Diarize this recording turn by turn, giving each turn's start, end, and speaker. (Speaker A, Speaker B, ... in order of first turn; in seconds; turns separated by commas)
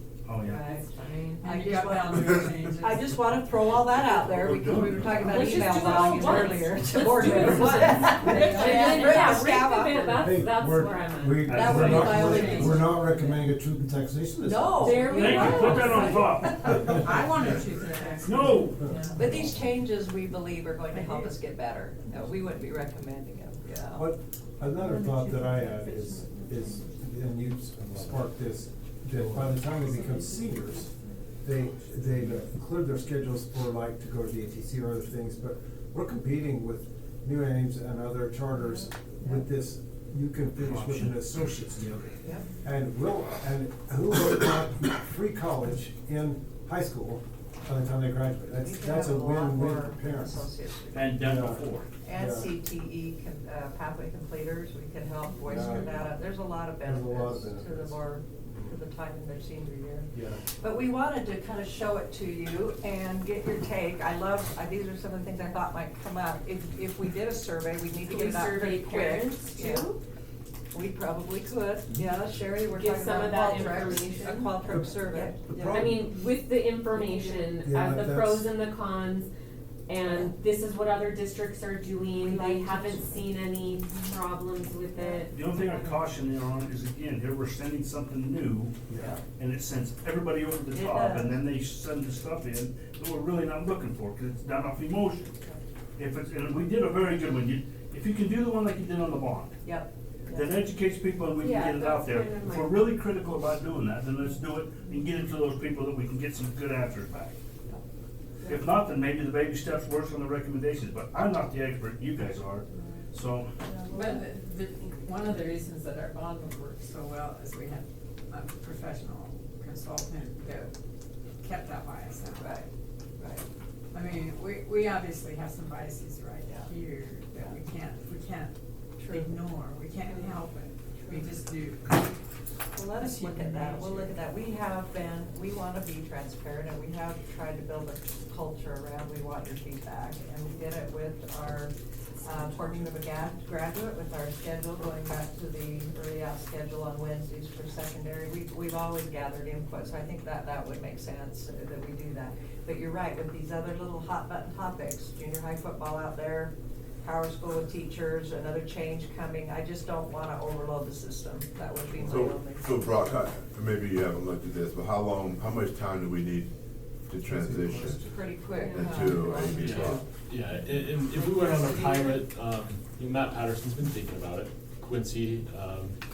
Speaker A: 0.3-0.6, Speaker B: 0.4-0.9, Speaker C: 0.6-1.5, Speaker D: 1.4-3.1, Speaker B: 1.4-10.5, Speaker A: 4.1-6.4, Speaker C: 5.2-13.4, Speaker A: 7.4-8.2, Speaker D: 8.2-9.4, Speaker E: 10.0-15.4, Speaker A: 11.4-12.8, Speaker B: 11.5-12.9, Speaker D: 12.4-12.6, Speaker B: 14.4-17.3, Speaker C: 14.7-16.5, Speaker A: 15.0-17.3, Speaker D: 16.7-19.2, Speaker E: 16.7-17.1, Speaker A: 18.2-18.9, Speaker E: 18.8-19.6, Speaker B: 19.1-24.1, Speaker D: 20.9-21.3, Speaker E: 24.0-30.9, Speaker C: 24.8-26.8, Speaker F: 27.8-28.3, Speaker F: 29.1-29.8, Speaker C: 30.1-30.5, Speaker E: 31.4-50.5, Speaker B: 38.6-39.4, Speaker A: 40.6-41.2, Speaker B: 42.2-42.5, Speaker B: 48.5-51.2, Speaker A: 50.9-51.9, Speaker E: 51.2-51.6, Speaker B: 52.0-69.9, Speaker E: 52.1-52.5, Speaker E: 55.5-56.1, Speaker E: 56.8-58.8, Speaker C: 68.0-70.0, Speaker B: 70.7-75.9, Speaker C: 72.6-79.3, Speaker E: 74.7-76.0, Speaker B: 76.9-77.5, Speaker E: 77.6-78.5, Speaker C: 79.9-86.0, Speaker B: 80.0-80.3, Speaker B: 82.2-83.2, Speaker B: 85.0-85.2, Speaker A: 85.3-88.8, Speaker E: 88.9-89.2, Speaker B: 88.9-89.2, Speaker A: 89.4-95.3, Speaker B: 90.7-91.4, Speaker A: 96.0-99.6, Speaker B: 99.6-100.5, Speaker A: 100.3-107.3, Speaker C: 101.4-102.9, Speaker A: 108.5-113.5, Speaker B: 112.8-113.0, Speaker B: 113.6-114.2, Speaker D: 113.9-120.7, Speaker D: 121.4-122.6, Speaker B: 122.4-122.7, Speaker B: 123.2-123.5, Speaker D: 123.9-132.2, Speaker B: 126.5-126.7, Speaker B: 127.3-127.6, Speaker B: 129.0-129.3, Speaker B: 132.7-141.7, Speaker D: 133.0-134.1, Speaker B: 142.2-156.5, Speaker B: 157.0-163.2, Speaker G: 161.9-166.5, Speaker G: 167.1-168.0, Speaker E: 167.4-168.0, Speaker B: 167.7-170.1, Speaker C: 168.5-169.3, Speaker G: 168.6-170.0, Speaker F: 169.5-175.9, Speaker B: 171.3-172.1